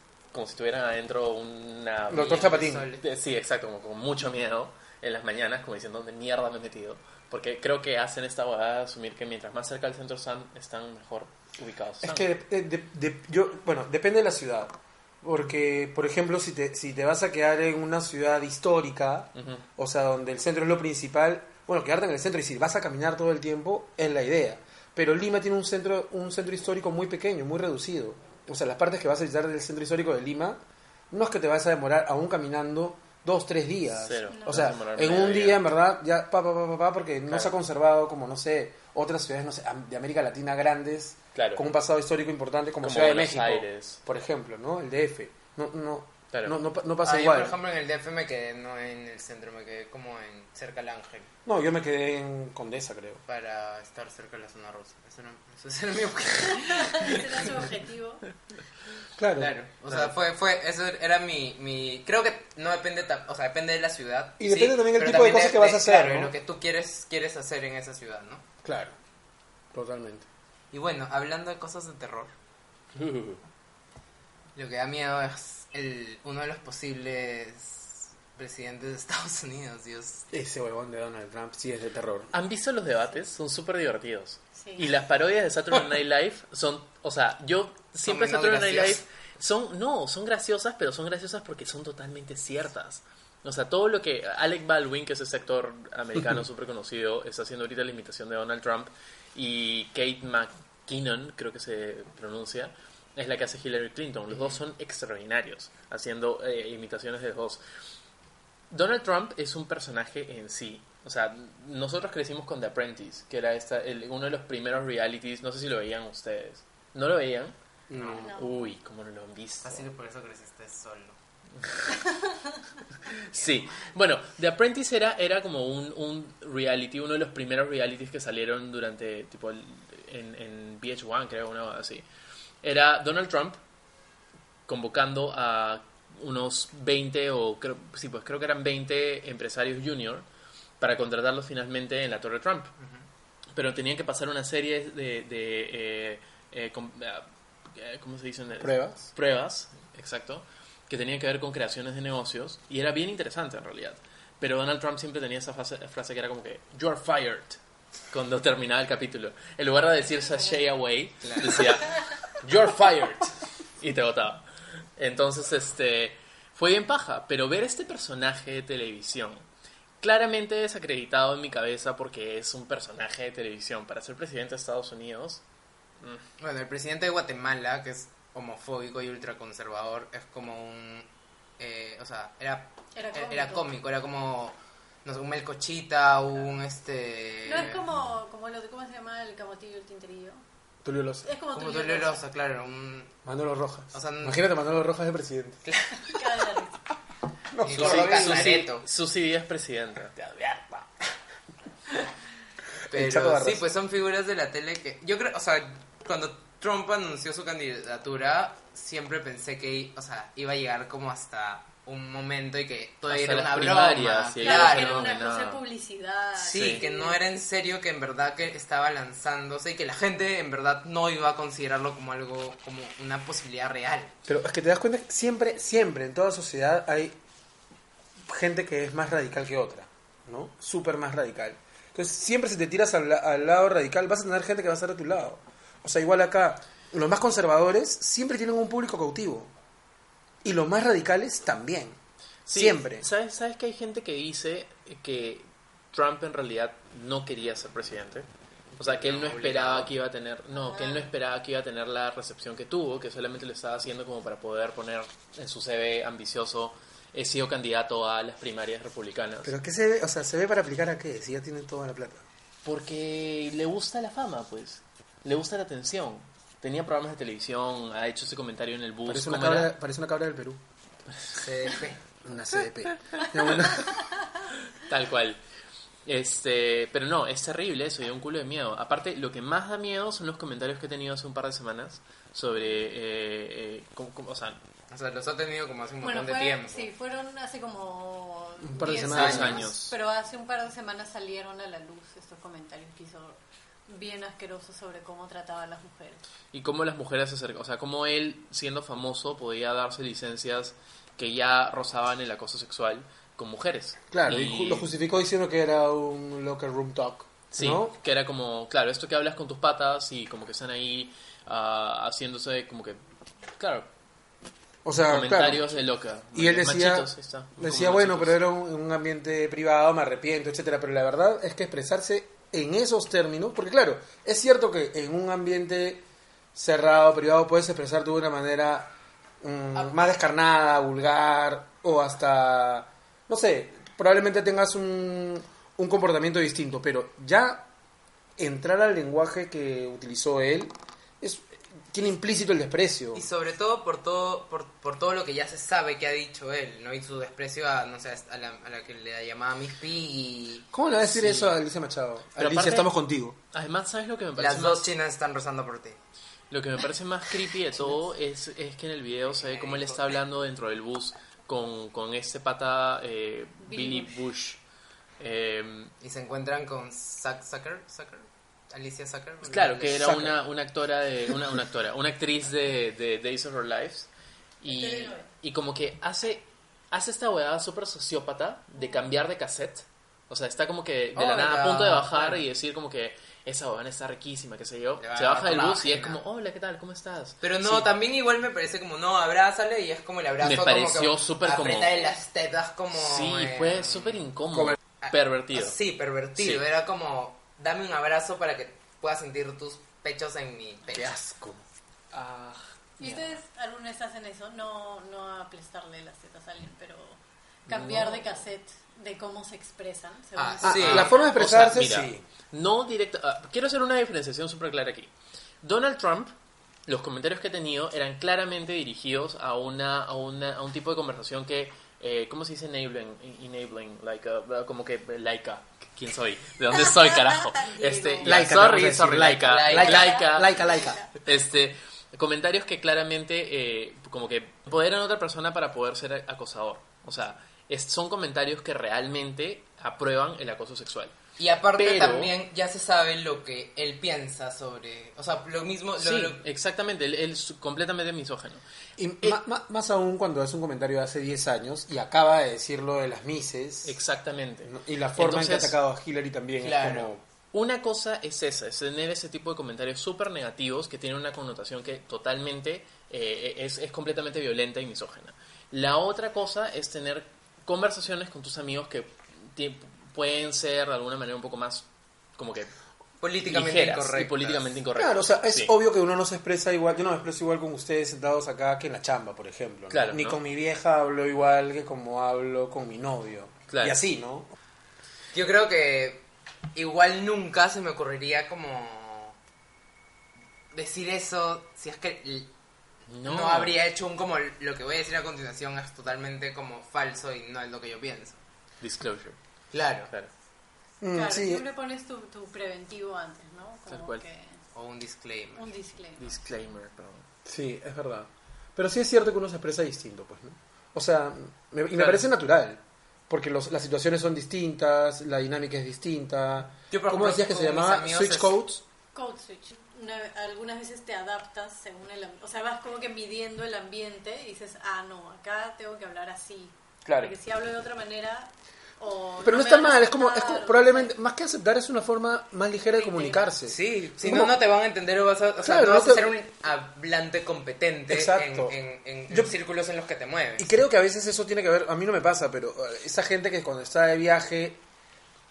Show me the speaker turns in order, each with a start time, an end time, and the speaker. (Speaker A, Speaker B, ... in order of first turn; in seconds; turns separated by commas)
Speaker A: 0.3-12.3, Speaker B: 2.1-2.9, Speaker C: 2.2-3.0, Speaker B: 12.0-30.6, Speaker A: 19.4-19.6, Speaker B: 31.1-47.6, Speaker A: 33.9-35.6, Speaker D: 34.3-34.7, Speaker A: 41.4-41.6, Speaker A: 42.8-44.0, Speaker A: 46.3-46.6, Speaker C: 47.0-51.3, Speaker B: 51.5-53.2, Speaker C: 53.3-57.7, Speaker D: 56.6-58.2, Speaker B: 59.2-60.1, Speaker C: 59.4-68.5, Speaker B: 64.4-66.3, Speaker B: 68.6-69.0, Speaker B: 69.7-70.3, Speaker C: 70.7-72.3, Speaker A: 73.0-73.4, Speaker C: 74.5-80.3, Speaker B: 80.3-82.3, Speaker A: 82.3-107.6, Speaker D: 84.6-84.9, Speaker C: 88.0-89.0, Speaker C: 104.3-104.6, Speaker A: 108.7-117.5, Speaker B: 117.9-118.3, Speaker C: 118.0-118.3, Speaker A: 118.2-119.8, Speaker D: 118.2-118.7, Speaker C: 119.6-121.2, Speaker A: 121.6-122.0, Speaker A: 123.1-132.1, Speaker A: 132.6-133.6, Speaker A: 134.7-140.3, Speaker A: 140.8-142.7, Speaker A: 143.6-157.6, Speaker B: 148.6-149.1, Speaker A: 158.1-164.4, Speaker C: 161.2-161.8, Speaker A: 165.0-169.4, Speaker A: 170.0-175.4, Speaker C: 176.4-181.1, Speaker C: 181.6-187.8, Speaker D: 182.9-183.7, Speaker D: 187.4-190.4, Speaker B: 190.8-191.3, Speaker D: 191.2-192.2, Speaker C: 191.5-193.2, Speaker B: 193.2-195.6, Speaker C: 193.9-194.4, Speaker C: 195.7-196.3, Speaker D: 196.0-196.8, Speaker B: 197.5-198.6, Speaker C: 197.6-198.8, Speaker A: 197.7-200.2, Speaker B: 200.2-200.9, Speaker C: 202.9-215.1, Speaker B: 202.9-203.7, Speaker A: 213.1-215.6, Speaker D: 214.4-217.2, Speaker C: 216.4-224.1, Speaker A: 216.5-216.8, Speaker B: 224.3-227.2, Speaker B: 228.2-239.5, Speaker B: 240.4-242.0, Speaker A: 242.5-248.3, Speaker B: 242.5-243.1, Speaker C: 248.8-249.9, Speaker A: 248.8-259.5, Speaker D: 250.6-251.1, Speaker B: 259.4-262.2, Speaker A: 262.6-269.7, Speaker B: 269.1-270.6, Speaker C: 271.3-272.0, Speaker B: 272.2-274.0, Speaker A: 274.7-275.4, Speaker A: 276.1-284.6, Speaker C: 284.9-286.9, Speaker D: 286.0-296.2, Speaker B: 288.6-289.7, Speaker A: 288.9-290.0, Speaker C: 289.1-289.6, Speaker A: 296.5-304.9, Speaker B: 304.1-308.0, Speaker A: 307.5-313.0, Speaker A: 313.6-313.9, Speaker B: 314.9-326.0, Speaker A: 315.1-318.4, Speaker B: 326.6-337.7, Speaker B: 338.4-343.3, Speaker C: 343.1-350.7, Speaker B: 350.7-353.4, Speaker A: 351.0-351.6, Speaker A: 352.4-352.9, Speaker A: 353.5-354.9, Speaker C: 354.4-356.0, Speaker A: 356.5-364.6, Speaker C: 359.3-360.1, Speaker D: 363.6-364.2, Speaker A: 365.2-365.9, Speaker C: 366.0-370.3, Speaker A: 369.4-374.1, Speaker B: 370.0-370.4, Speaker A: 374.6-387.9, Speaker D: 374.7-375.3, Speaker C: 381.1-382.4, Speaker C: 385.0-386.2, Speaker C: 387.4-394.2, Speaker A: 390.4-392.0, Speaker A: 392.9-395.8, Speaker C: 395.0-401.1, Speaker A: 396.4-396.6, Speaker B: 400.9-401.6, Speaker A: 402.1-403.4, Speaker D: 403.0-411.3, Speaker A: 407.7-408.3, Speaker C: 410.4-411.2, Speaker B: 410.6-412.2, Speaker A: 410.8-415.1, Speaker A: 415.6-416.3, Speaker A: 416.9-441.1, Speaker D: 426.9-428.4, Speaker B: 428.2-431.0, Speaker C: 429.4-430.3, Speaker D: 429.8-431.1, Speaker C: 441.4-446.4, Speaker A: 441.8-442.3, Speaker A: 446.0-448.6, Speaker B: 449.0-454.0, Speaker A: 453.9-455.8, Speaker B: 454.6-457.2, Speaker C: 456.6-457.1, Speaker A: 457.5-471.9, Speaker A: 472.4-472.7, Speaker C: 473.2-474.7, Speaker A: 473.4-475.7, Speaker B: 475.0-484.5, Speaker A: 479.9-480.4, Speaker A: 483.7-484.0, Speaker C: 485.3-489.4, Speaker C: 490.7-492.5, Speaker A: 493.1-493.8, Speaker C: 493.2-498.4, Speaker A: 498.8-499.4, Speaker C: 499.7-500.1, Speaker B: 501.0-501.7, Speaker D: 501.1-504.6, Speaker A: 503.9-504.2, Speaker C: 504.7-505.7, Speaker D: 505.6-506.4, Speaker A: 506.2-507.3, Speaker B: 507.4-518.8, Speaker A: 511.9-512.2, Speaker C: 516.9-518.5, Speaker D: 519.1-531.1, Speaker A: 527.1-527.3, Speaker B: 529.4-534.5, Speaker D: 533.0-533.5, Speaker C: 533.7-540.7, Speaker B: 535.6-536.3, Speaker B: 538.1-538.8, Speaker B: 539.3-539.5, Speaker B: 540.6-544.8